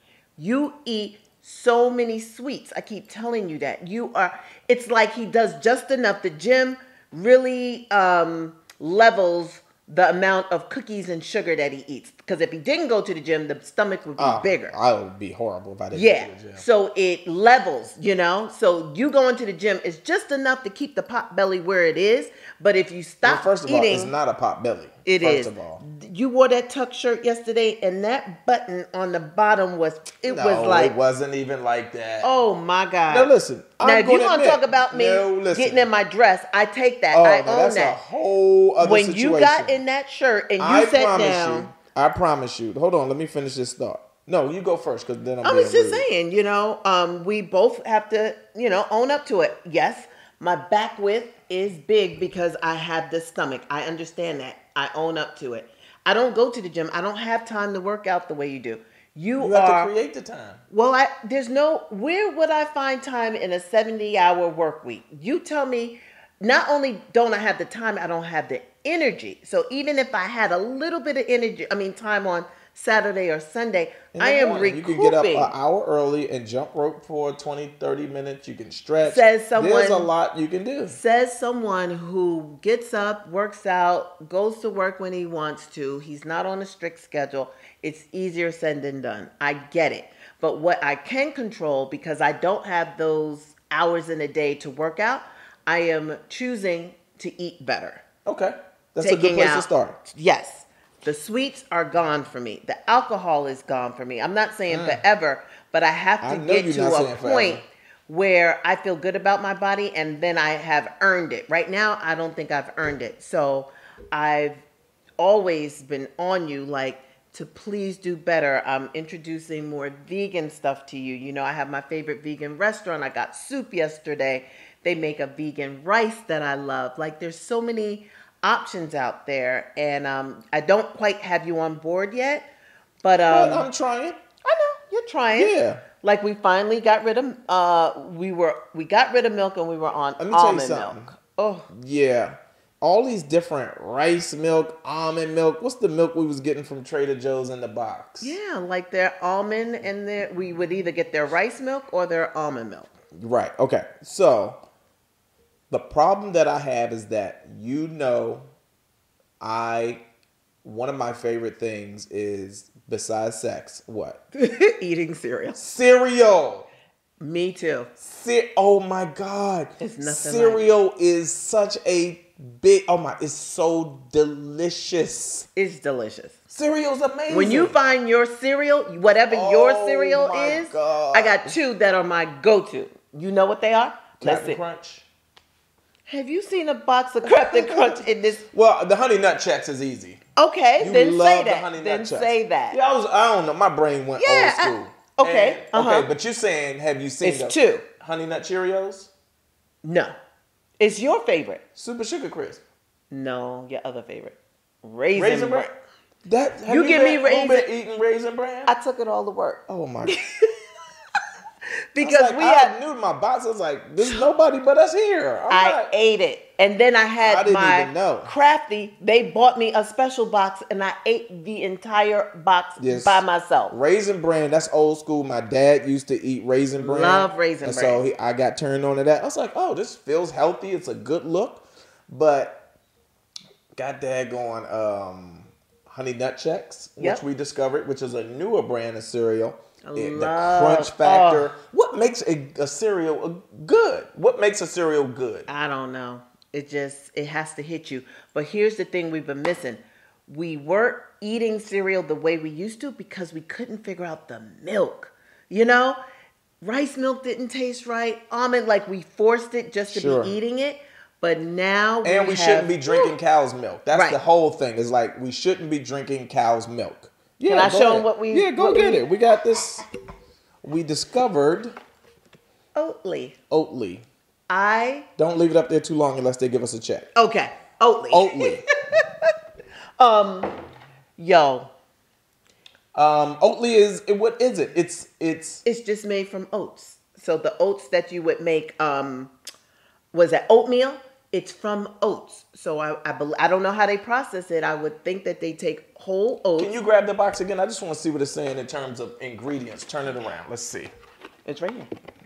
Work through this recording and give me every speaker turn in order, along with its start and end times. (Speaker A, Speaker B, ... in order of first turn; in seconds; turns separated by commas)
Speaker A: 0.4-14.7, Speaker B: 14.2-16.6, Speaker A: 15.9-24.1, Speaker B: 23.2-25.8, Speaker A: 25.1-30.9, Speaker B: 30.3-32.3, Speaker A: 32.2-38.0, Speaker B: 33.1-35.9, Speaker B: 37.1-39.8, Speaker A: 38.8-41.7, Speaker B: 40.6-46.0, Speaker A: 45.4-59.9, Speaker B: 59.4-60.6, Speaker A: 60.7-75.5, Speaker B: 74.1-81.0, Speaker A: 79.0-80.1, Speaker A: 80.9-98.0, Speaker B: 98.2-100.0, Speaker A: 99.0-114.6, Speaker B: 104.7-105.0, Speaker B: 106.2-107.6, Speaker A: 115.2-132.5, Speaker A: 133.0-133.7, Speaker B: 133.3-134.2, Speaker A: 134.4-141.7, Speaker B: 135.3-135.8, Speaker B: 140.2-141.1, Speaker B: 141.7-148.3, Speaker A: 148.2-152.9, Speaker B: 153.1-154.6, Speaker B: 155.7-158.5, Speaker B: 159.4-160.0, Speaker B: 160.6-164.2, Speaker A: 164.3-165.6, Speaker B: 165.6-166.7, Speaker A: 167.2-167.9, Speaker B: 168.0-175.5, Speaker A: 169.8-170.7, Speaker A: 175.5-176.4, Speaker B: 176.5-177.8, Speaker A: 177.3-184.6, Speaker B: 179.3-181.6, Speaker B: 184.2-185.1, Speaker A: 186.1-188.4, Speaker B: 187.2-190.2, Speaker A: 190.3-192.8, Speaker B: 190.8-199.1, Speaker A: 194.2-196.1, Speaker A: 197.2-197.8, Speaker A: 199.8-200.1, Speaker A: 200.8-201.6, Speaker B: 201.7-202.6, Speaker A: 203.1-205.7, Speaker B: 205.1-205.7, Speaker B: 206.2-208.7, Speaker A: 206.7-207.7, Speaker A: 208.7-210.7, Speaker B: 209.7-210.2, Speaker A: 211.9-212.7, Speaker B: 212.0-215.9, Speaker A: 215.5-223.7, Speaker B: 217.2-218.3, Speaker B: 222.8-232.7, Speaker A: 226.8-228.0, Speaker B: 233.8-245.5, Speaker A: 239.8-241.5, Speaker A: 245.5-256.0, Speaker A: 256.6-263.1, Speaker B: 259.9-260.3, Speaker B: 262.0-269.8, Speaker A: 263.9-264.2, Speaker A: 267.5-269.1, Speaker B: 270.6-271.7, Speaker A: 272.7-273.4, Speaker B: 273.5-274.0, Speaker A: 274.5-275.1, Speaker B: 275.2-277.1, Speaker A: 277.1-279.3, Speaker B: 278.1-278.7, Speaker A: 280.0-280.6, Speaker A: 281.2-281.7, Speaker B: 282.9-285.6, Speaker A: 285.6-289.3, Speaker A: 290.1-296.7, Speaker B: 296.6-300.9, Speaker A: 301.4-301.9